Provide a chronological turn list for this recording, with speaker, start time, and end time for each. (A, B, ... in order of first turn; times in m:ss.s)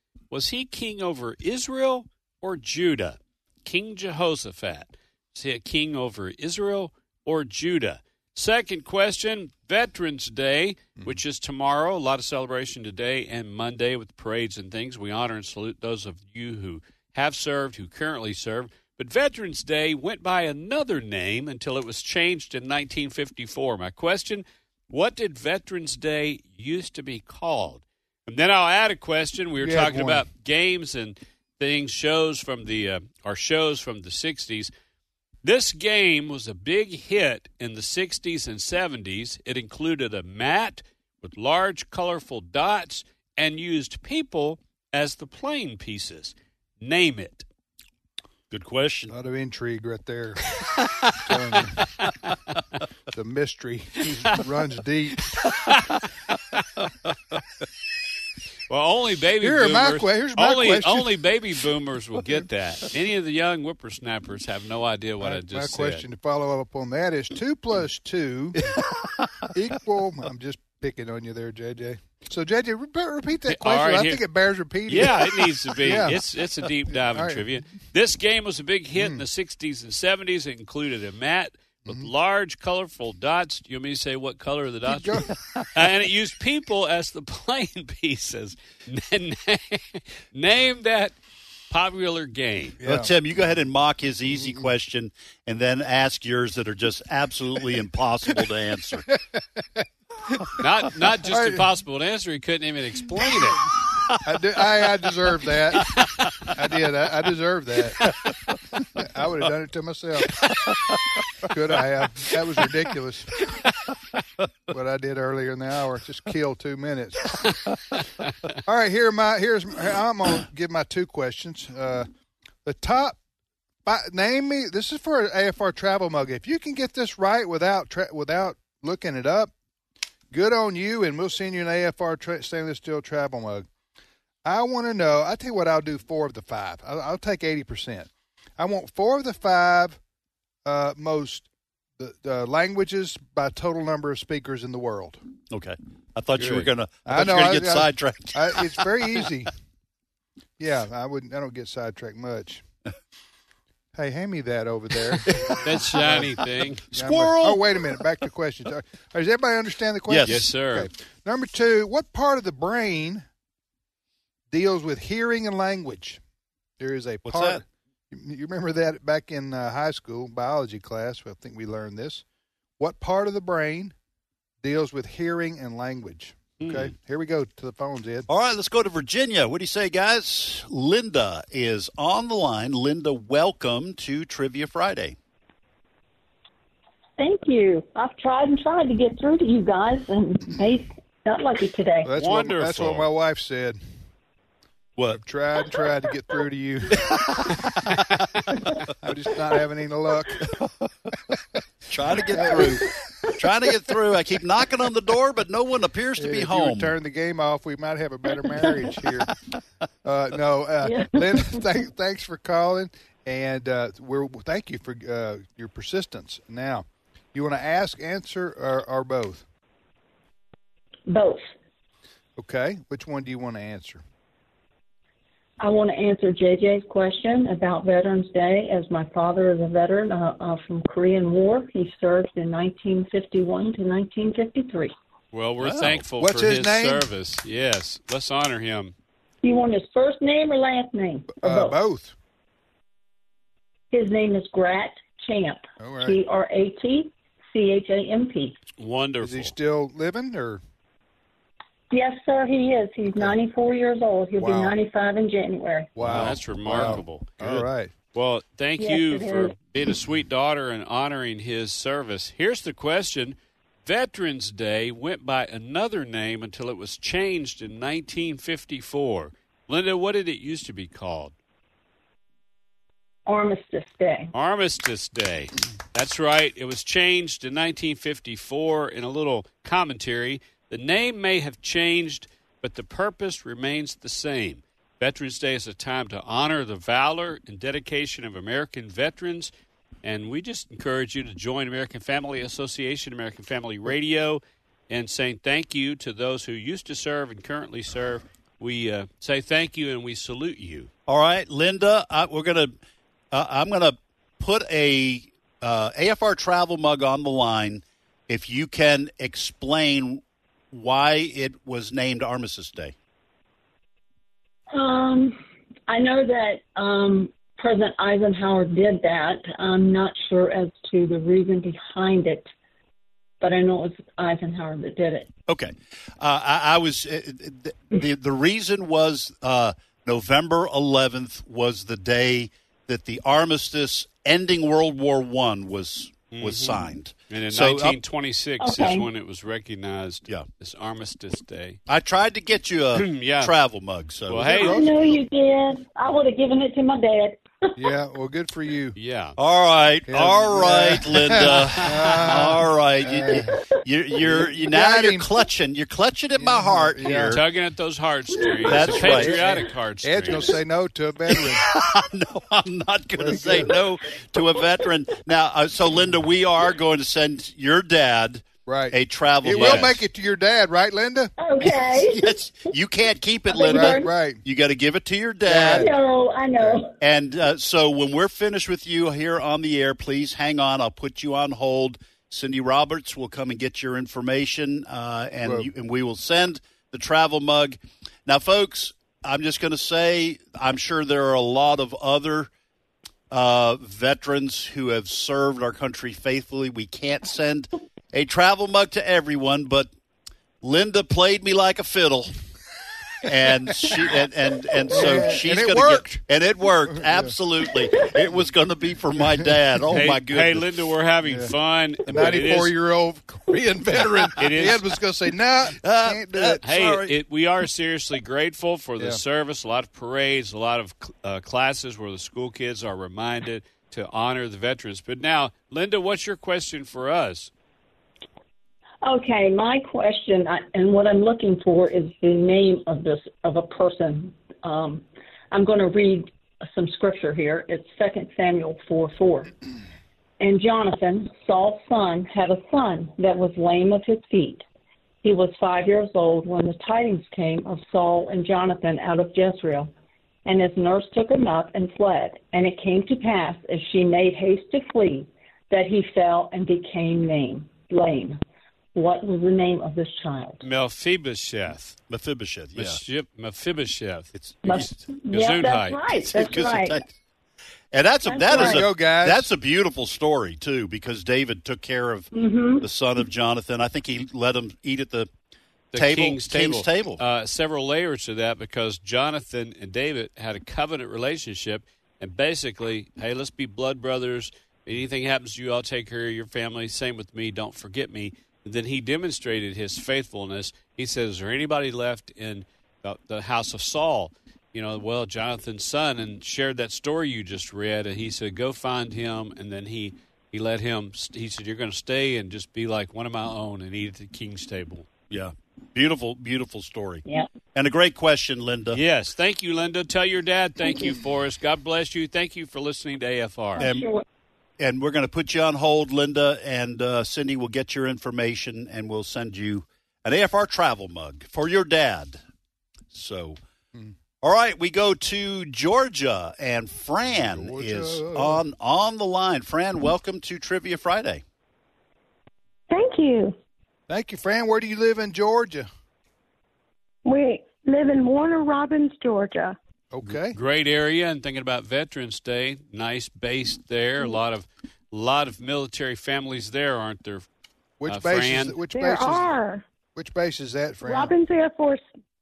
0:00.3-0:34.7 A
0:29.6-0:30.2 B
0:35.4-0:47.4 A
0:48.5-0:49.1 C
0:49.1-0:50.5 B
0:51.2-0:51.9 B
0:53.1-0:55.3 B
0:58.7-1:06.0 A
0:59.4-1:01.1 B
1:05.2-1:08.7 B
1:09.0-1:09.4 C
1:09.5-1:16.2 B
1:13.5-1:14.2 A
1:14.9-1:31.2 A
1:17.1-1:17.4 B
1:19.0-1:19.2 B
1:24.9-1:25.3 B
1:31.7-1:32.8 A
1:32.8-1:33.1 B
1:32.8-1:39.1 C
1:40.6-1:43.7 A
1:41.3-1:41.6 B
1:44.2-1:48.1 B
1:48.8-1:50.4 B
1:51.4-1:53.4 B
1:54.7-1:57.6 B
1:58.6-2:02.1 B
2:02.6-2:03.2 B
2:03.8-2:09.5 B
2:10.3-2:13.6 B
2:14.4-2:20.0 B
2:20.6-2:21.5 B
2:22.0-2:25.2 B
2:25.5-2:29.2 C
2:26.4-2:29.5 B
2:30.6-2:32.6 B
2:33.9-2:43.2 B
2:35.3-2:36.3 C
2:35.6-2:36.8 A
2:36.9-2:37.6 C
2:40.1-2:40.5 C
2:40.2-2:40.9 A
2:44.5-2:46.2 B
2:46.8-2:52.2 B
2:47.2-2:47.6 C
2:52.8-2:53.9 B
2:54.6-2:58.3 B
2:58.3-3:05.2 C
3:07.2-3:12.1 D
3:12.0-3:13.8 B
3:12.2-3:13.1 A
3:15.1-3:17.5 B
3:19.0-3:20.5 B
3:21.9-3:27.0 C
3:22.3-3:22.8 B
3:26.2-3:29.3 B
3:30.0-3:39.4 B
3:30.8-3:31.6 D
3:41.1-3:41.4 D
3:42.4-3:44.0 B
3:45.6-3:54.9 D
3:55.3-3:58.9 A
3:55.6-3:56.0 C
3:56.2-3:57.0 B
3:59.4-4:01.8 D
4:01.4-4:02.1 B
4:03.9-4:08.6 D
4:05.8-4:06.2 B
4:08.8-4:09.5 A
4:09.2-4:10.6 B
4:11.9-4:16.0 D
4:14.4-4:14.7 B
4:16.0-4:17.9 B
4:16.0-4:31.3 A
4:16.1-4:16.9 C
4:18.8-4:19.6 D
4:33.2-4:34.3 D
4:34.3-4:49.5 A
4:50.0-5:00.9 A
5:01.1-5:02.8 C
5:03.3-5:12.9 C
5:14.7-5:22.5 D
5:23.4-5:25.3 D
5:25.5-5:38.0 C
5:36.3-5:36.8 A
5:37.3-5:41.8 A
5:38.6-5:39.1 D
5:41.9-5:44.7 C
5:43.0-5:43.5 A
5:44.3-5:44.8 A
5:44.4-5:45.1 B
5:44.6-5:47.7 D
5:47.8-5:49.0 B
5:49.0-5:49.4 A
5:49.4-5:57.4 C
5:50.1-5:53.6 B
5:51.9-5:52.3 A
5:54.2-5:55.3 B
5:56.4-5:57.4 B
5:57.2-6:00.6 A
5:58.6-5:59.6 C
5:58.7-6:01.7 B
6:01.3-6:10.0 C
6:03.2-6:03.8 B
6:08.6-6:11.3 B
6:09.5-6:09.9 A
6:11.4-6:12.4 D
6:11.6-6:15.9 C
6:13.5-6:14.1 D
6:13.6-6:14.4 B
6:15.5-6:16.0 B
6:15.6-6:16.9 D
6:17.0-6:32.5 C
6:25.4-6:25.7 B
6:33.3-6:39.9 C
6:40.6-6:42.3 C
6:43.2-6:50.7 C
6:44.9-6:46.2 B
6:46.9-6:47.3 B
6:49.9-6:52.7 A
6:51.2-6:51.5 B
6:52.1-6:56.6 B
6:54.4-6:54.8 A
6:55.8-6:57.2 C
6:56.6-7:07.5 A
7:09.0-7:19.5 D
7:20.4-7:24.6 D
7:25.2-7:29.9 D
7:30.4-7:38.4 D
7:38.9-7:40.6 D
7:40.6-7:42.0 A
7:42.1-7:43.0 C
7:42.8-7:44.3 A
7:44.3-7:44.9 C
7:44.6-7:47.0 D
7:45.3-7:46.0 A
7:46.2-7:47.1 C
7:47.9-7:55.3 C
7:48.2-7:48.8 D
7:48.5-7:49.5 B
7:52.3-7:52.9 D
7:55.9-8:25.1 A
7:55.9-7:57.2 C
8:25.3-8:29.0 C
8:28.9-8:33.8 A
8:30.8-8:31.1 D
8:33.8-8:34.2 D
8:33.8-8:34.1 C
8:34.8-8:42.4 C
8:43.1-8:43.6 C
8:44.4-8:51.4 C
8:47.3-8:48.6 B
8:52.9-8:53.6 E
8:54.1-8:55.9 B
8:57.2-8:59.8 E
9:00.1-9:00.6 B
9:00.3-9:07.4 A
9:08.0-9:09.5 B
9:08.1-9:08.8 A
9:08.9-9:09.8 E
9:10.2-9:11.3 B
9:11.0-9:12.0 E